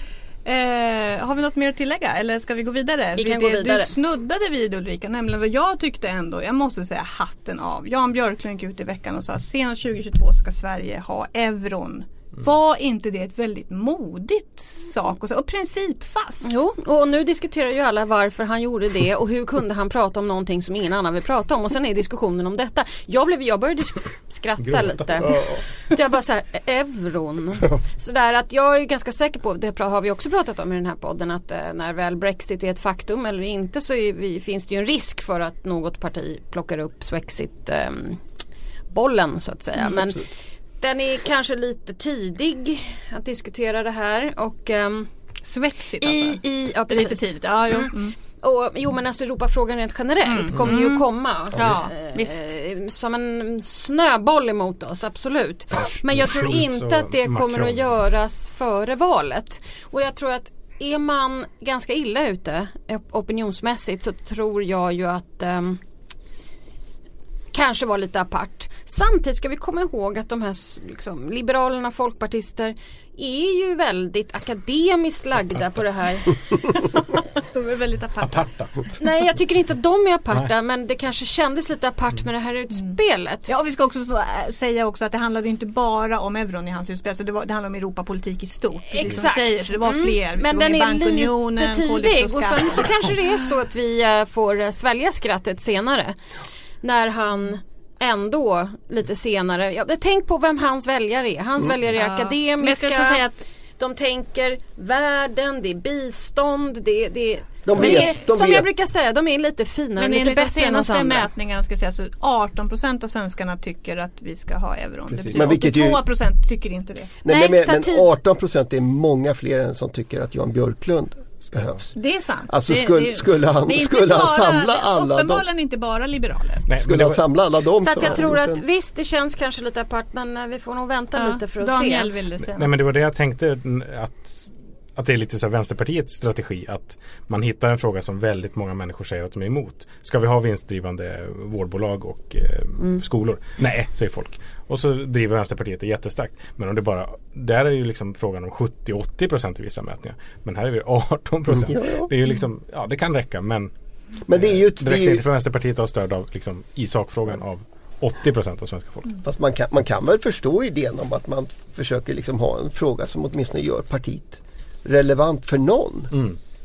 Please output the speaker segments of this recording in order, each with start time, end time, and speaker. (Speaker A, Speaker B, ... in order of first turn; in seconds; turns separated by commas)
Speaker A: 0.4-16.5, Speaker B: 3.2-3.9, Speaker B: 16.4-38.2, Speaker C: 24.6-25.4, Speaker D: 25.3-25.6, Speaker B: 38.9-40.2, Speaker B: 40.8-45.1, Speaker A: 45.4-48.1, Speaker B: 46.0-65.8, Speaker A: 50.2-52.5, Speaker C: 55.8-57.8, Speaker B: 67.5-76.6, Speaker A: 77.3-78.5, Speaker C: 78.2-78.9, Speaker B: 79.0-83.5, Speaker A: 83.5-93.1, Speaker B: 88.9-96.2, Speaker B: 96.8-103.2, Speaker A: 102.0-103.4, Speaker B: 103.8-111.3, Speaker D: 107.6-108.7, Speaker A: 107.8-108.0, Speaker A: 110.0-117.2, Speaker C: 115.1-115.6, Speaker D: 115.3-116.1, Speaker D: 117.2-121.9, Speaker B: 117.3-118.1, Speaker A: 121.9-126.7, Speaker D: 122.5-125.5, Speaker C: 126.7-127.2, Speaker D: 126.7-128.6, Speaker B: 127.8-132.1, Speaker A: 131.1-132.8, Speaker C: 132.4-153.7, Speaker D: 151.5-152.1, Speaker D: 154.2-155.2, Speaker C: 154.3-159.2, Speaker D: 159.2-166.2, Speaker C: 166.1-166.4